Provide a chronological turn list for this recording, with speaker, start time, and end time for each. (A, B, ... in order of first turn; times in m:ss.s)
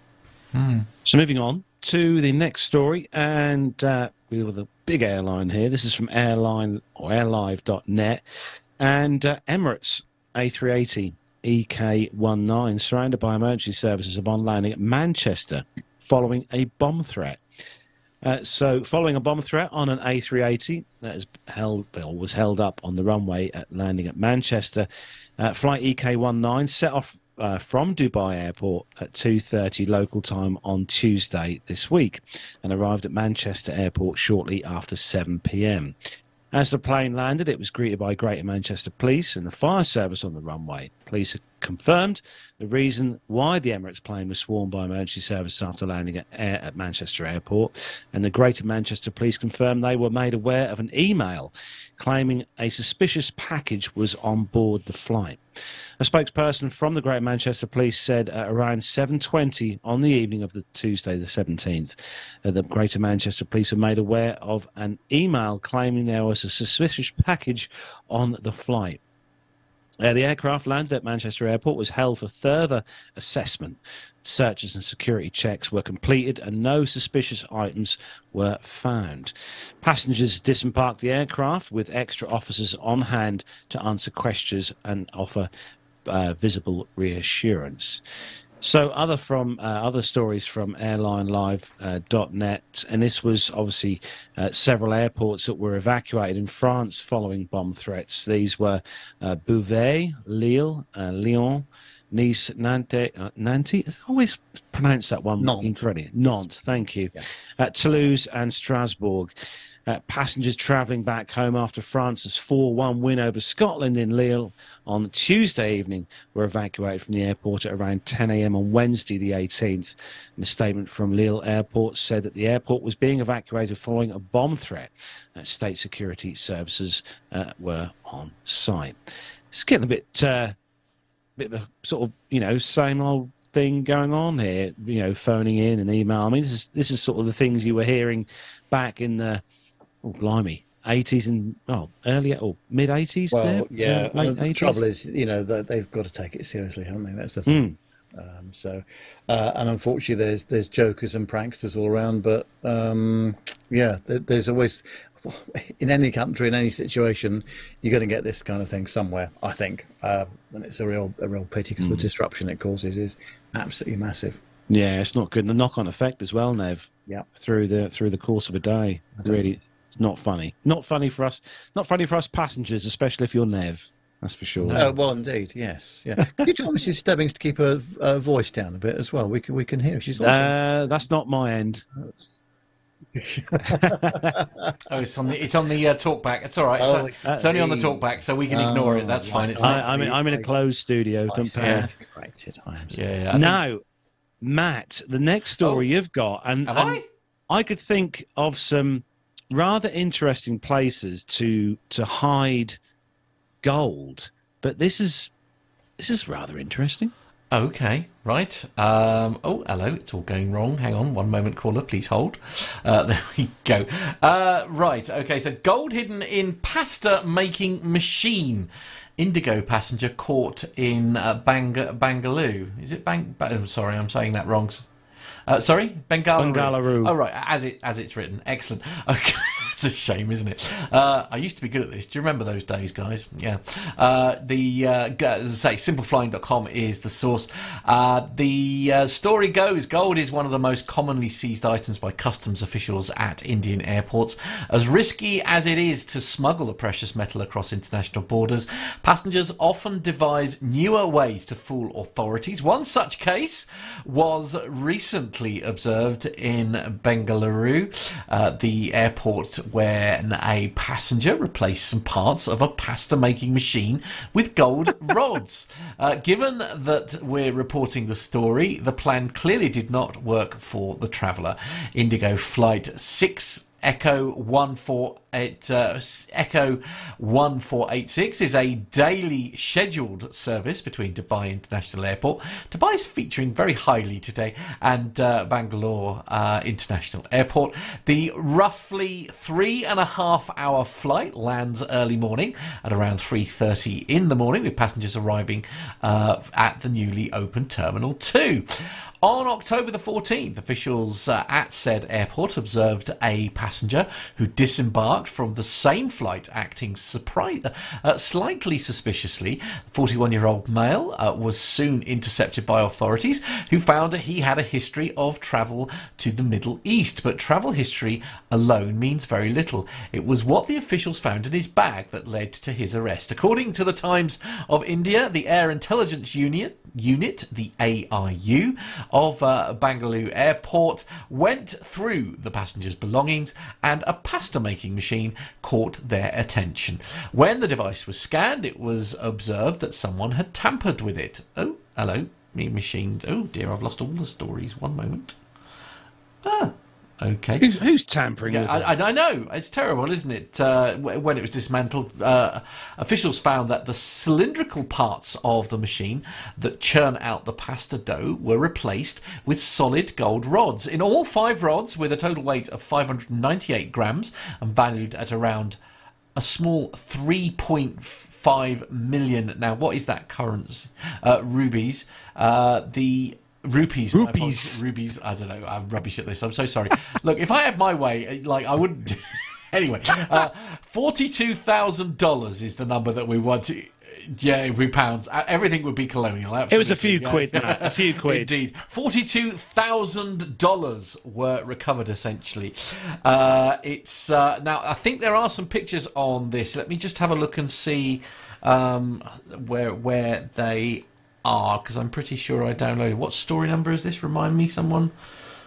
0:00.5-0:00.8 A
0:01.0-0:08.2 B
0:08.8-0:17.4 B
0:18.2-0:35.9 B
0:36.5-0:55.4 B
0:56.0-1:09.0 B
1:10.0-1:25.5 B
1:26.0-1:28.0 B
1:28.6-1:49.3 B
1:45.4-1:47.2 C
1:49.8-2:09.0 B
2:09.5-2:10.5 B
2:11.4-2:19.4 B
2:20.0-2:24.8 B
2:23.3-2:44.4 C
2:27.5-2:27.8 B
2:44.7-2:54.8 B
2:49.2-2:49.4 C
2:54.6-2:55.0 A
2:54.7-3:00.9 C
3:00.2-3:01.8 B
3:02.0-3:02.3 C
3:03.1-3:04.7 C
3:03.6-3:04.3 B
3:04.8-3:10.2 A
3:06.8-3:10.5 C
3:09.6-3:11.9 B
3:11.3-3:13.0 C
3:11.6-3:11.9 A
3:12.9-3:13.6 A
3:13.3-3:13.8 B
3:14.4-3:22.8 B
3:15.6-3:15.8 A
3:16.6-3:17.1 A
3:23.6-3:25.3 B
3:26.0-3:27.1 B
3:27.5-3:44.8 A
3:45.5-5:45.4 A
3:46.4-3:47.1 B
5:46.4-5:47.7 A
5:47.6-5:48.9 B
5:48.4-6:05.8 A
6:06.3-6:45.1 A
6:14.1-6:14.8 B
6:26.7-6:28.6 B